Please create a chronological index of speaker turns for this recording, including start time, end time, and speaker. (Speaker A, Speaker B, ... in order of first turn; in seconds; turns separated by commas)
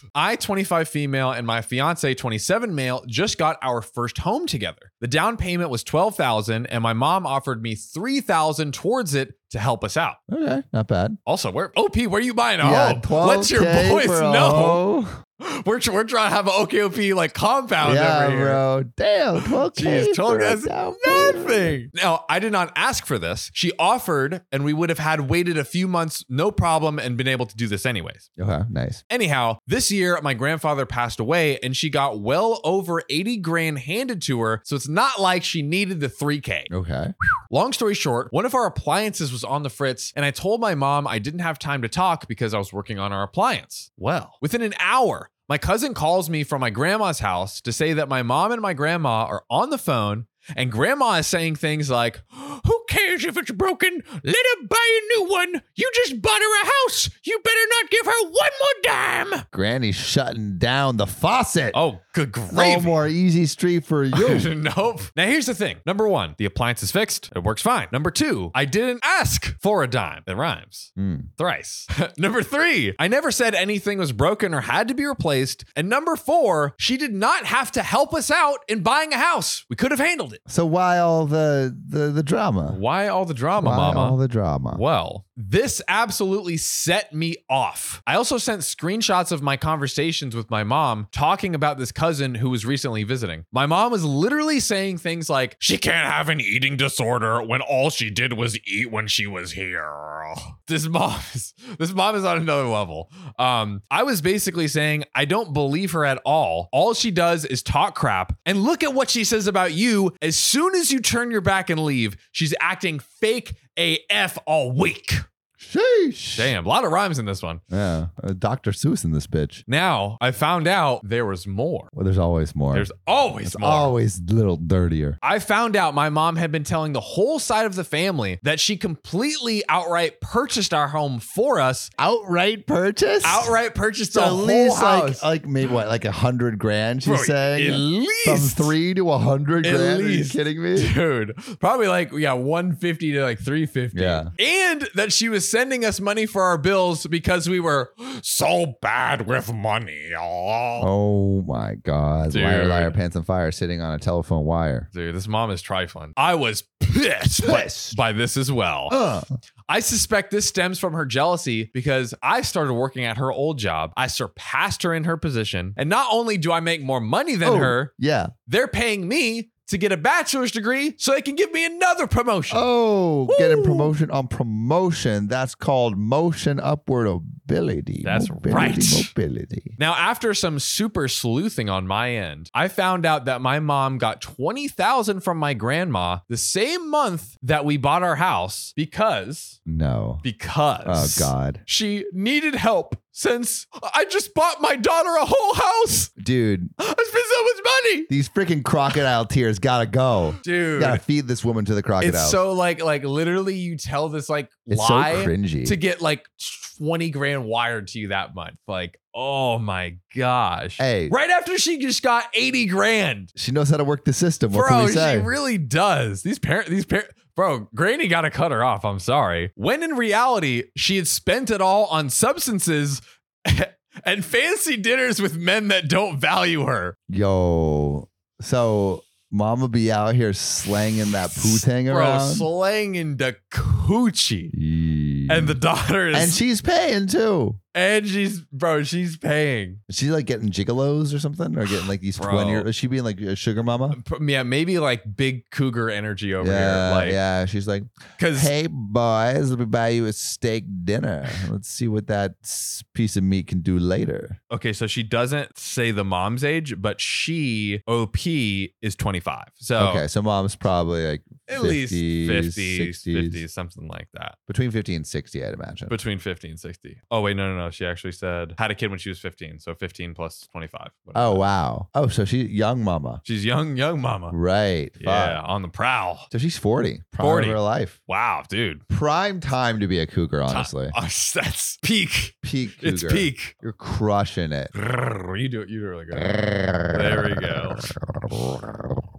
Speaker A: 0.1-10.2, Speaker B: 10.3-11.2, Speaker A: 11.2-14.8, Speaker B: 12.6-15.2, Speaker A: 15.4-18.6, Speaker B: 17.8-21.7, Speaker A: 19.4-28.2, Speaker B: 28.4-29.0, Speaker A: 29.1-36.7, Speaker B: 36.7-37.1, Speaker A: 37.5-59.4, Speaker B: 59.5-61.8, Speaker A: 61.7-63.0, Speaker B: 62.5-64.5, Speaker A: 64.1-80.4, Speaker B: 71.0-71.3, Speaker B: 80.5-82.8, Speaker A: 82.7-84.2, Speaker B: 83.6-84.8, Speaker A: 84.7-115.2, Speaker B: 115.6-116.5, Speaker A: 116.3-117.6, Speaker B: 117.7-119.6, Speaker A: 119.7-121.9, Speaker B: 121.9-122.9, Speaker A: 122.7-123.9, Speaker B: 123.4-125.2, Speaker A: 125.2-131.9, Speaker B: 132.0-133.5, Speaker A: 133.2-135.2, Speaker B: 134.1-140.9, Speaker A: 137.0-138.7, Speaker A: 139.6-150.9, Speaker B: 143.9-144.3, Speaker B: 150.8-154.9, Speaker A: 152.3-153.0, Speaker A: 154.9-159.0, Speaker B: 157.4-158.0, Speaker B: 158.9-159.2, Speaker A: 159.7-167.9, Speaker B: 167.4-168.3, Speaker A: 168.5-172.7, Speaker B: 172.5-179.7, Speaker A: 173.3-173.9, Speaker A: 178.0-179.1, Speaker A: 179.8-189.6, Speaker B: 189.7-190.2, Speaker A: 190.2-196.1, Speaker B: 190.8-191.6, Speaker B: 196.2-196.7, Speaker A: 196.8-198.1, Speaker B: 198.1-202.4, Speaker A: 200.4-201.0, Speaker A: 202.0-213.3, Speaker B: 204.7-205.8, Speaker B: 210.8-211.1, Speaker B: 213.3-215.3, Speaker A: 214.5-227.0, Speaker B: 227.1-232.5, Speaker A: 231.3-234.5, Speaker B: 234.5-235.6, Speaker A: 235.3-236.4, Speaker B: 236.1-237.6, Speaker A: 237.7-239.8, Speaker B: 239.9-244.0, Speaker A: 242.1-242.7, Speaker A: 243.9-247.2, Speaker B: 246.4-254.4, Speaker A: 248.2-248.5, Speaker A: 254.5-260.0, Speaker B: 259.8-263.4, Speaker A: 261.5-264.4, Speaker B: 264.5-265.9, Speaker A: 265.9-271.4, Speaker B: 271.1-273.2, Speaker A: 273.2-274.4, Speaker B: 274.3-275.4, Speaker A: 275.0-276.3, Speaker B: 276.3-277.9, Speaker A: 277.2-278.8, Speaker B: 278.9-280.9, Speaker A: 280.5-283.6, Speaker B: 282.4-284.7, Speaker A: 284.7-287.9, Speaker B: 286.2-289.0